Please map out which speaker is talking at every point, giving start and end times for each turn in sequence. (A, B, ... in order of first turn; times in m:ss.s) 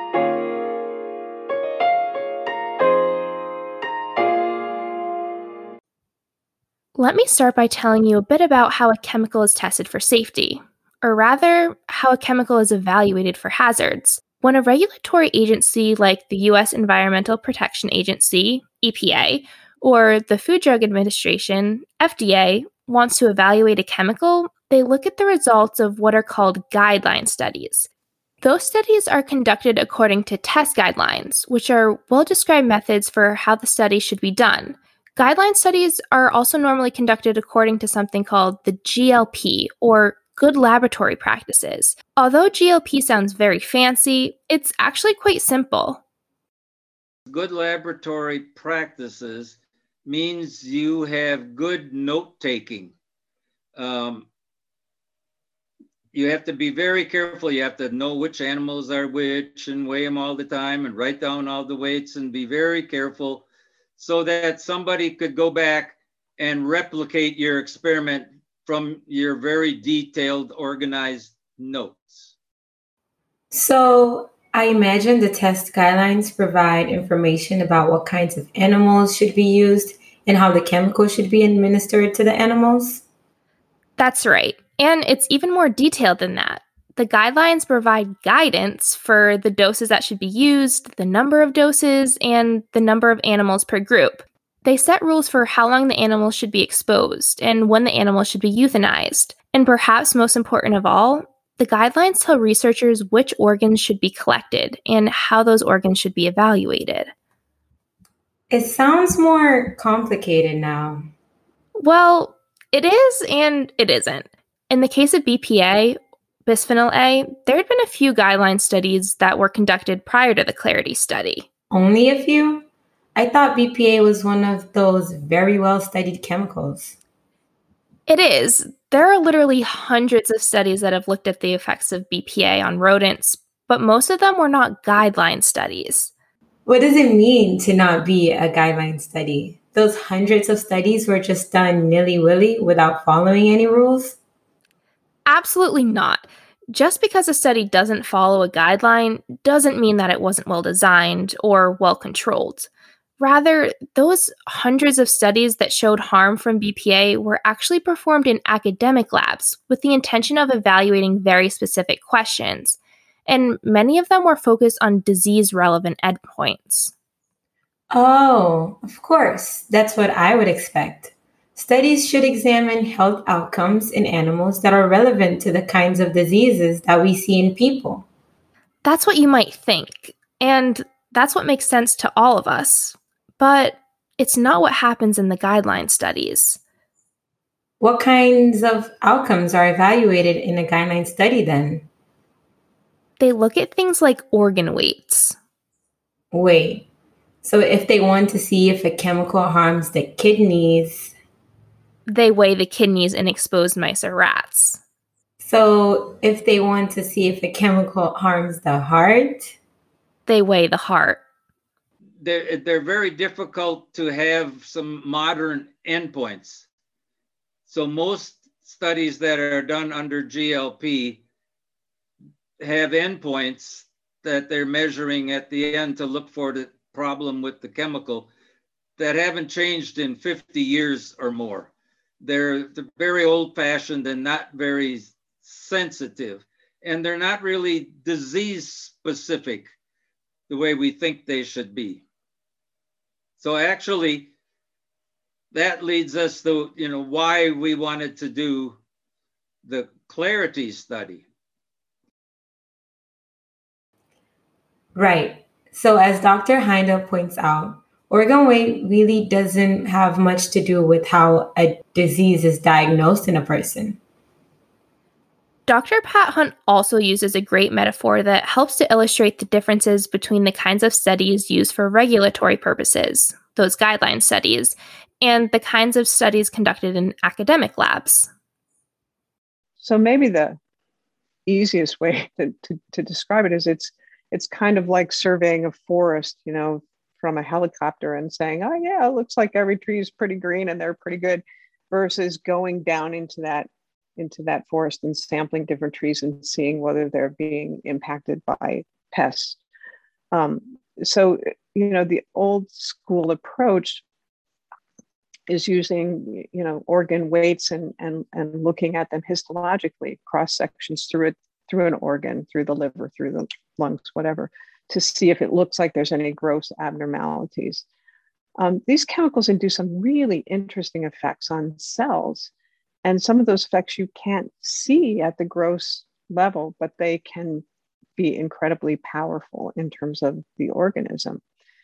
0:07.0-0:27.9 A
0:28.4-0:46.0 A
0:47.3-0:52.9 B
0:53.8-0:54.3 B
0:56.1-1:03.5 B
1:04.0-1:12.3 B
1:13.5-1:23.0 C
1:24.0-1:47.1 A
1:48.5-1:51.0 C
1:51.8-2:01.5 A
2:01.7-2:07.0 C
2:08.1-2:16.1 A
2:16.7-2:24.2 C
2:25.3-2:46.9 A
2:47.9-2:58.0 C
2:58.8-3:06.6 A
3:07.8-3:11.9 C
3:13.2-3:15.4 A
3:16.3-3:16.9 C
3:17.4-3:21.1 C
3:22.1-3:24.8 A
3:25.4-3:29.6 C
3:30.3-3:31.2 A
3:32.2-3:36.6 B
3:37.7-3:41.2 B
3:42.6-3:48.3 B
3:49.0-3:51.7 B
3:52.2-3:59.7 B
4:00.5-4:02.0 B
4:03.4-4:04.3 B
4:05.5-4:08.8 B
4:09.6-4:11.2 B
4:15.0-4:24.0 C
4:25.7-4:38.3 A
4:39.8-4:40.6 D
4:41.5-4:59.6 D
5:00.3-5:04.0 D
5:05.5-5:17.8 D
5:18.6-5:22.5 D
5:23.0-5:27.6 D
5:28.2-5:31.4 D